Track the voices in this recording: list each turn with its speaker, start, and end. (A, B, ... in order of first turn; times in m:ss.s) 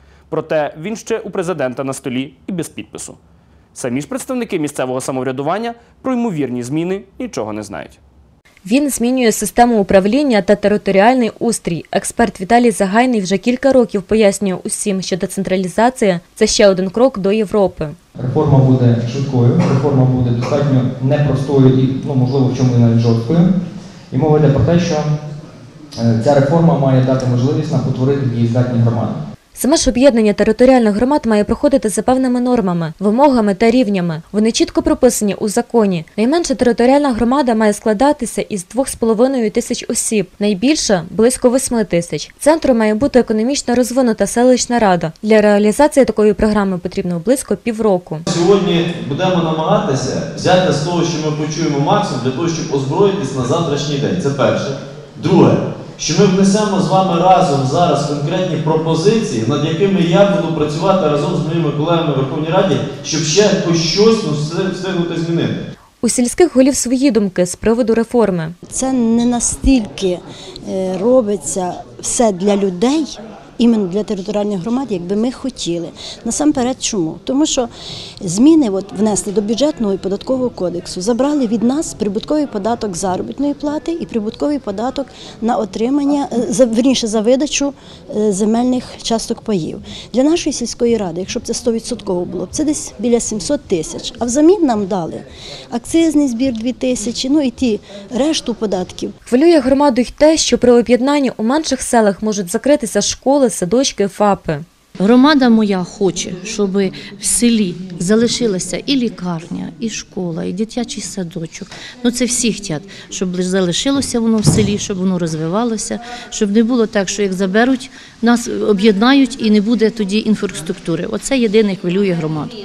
0:00.3-0:03.2 A
0:03.8-0:08.0 A
0:08.6-0:18.0 B
0:18.2-0:23.5 C
0:24.1-0:25.1 C
0:26.0-0:29.2 C
0:29.6-0:48.2 B
0:48.3-1:05.6 D
1:06.0-1:08.6 B
1:08.7-1:17.7 E
1:18.2-1:39.1 E
1:39.3-1:44.6 B
1:45.0-2:02.5 F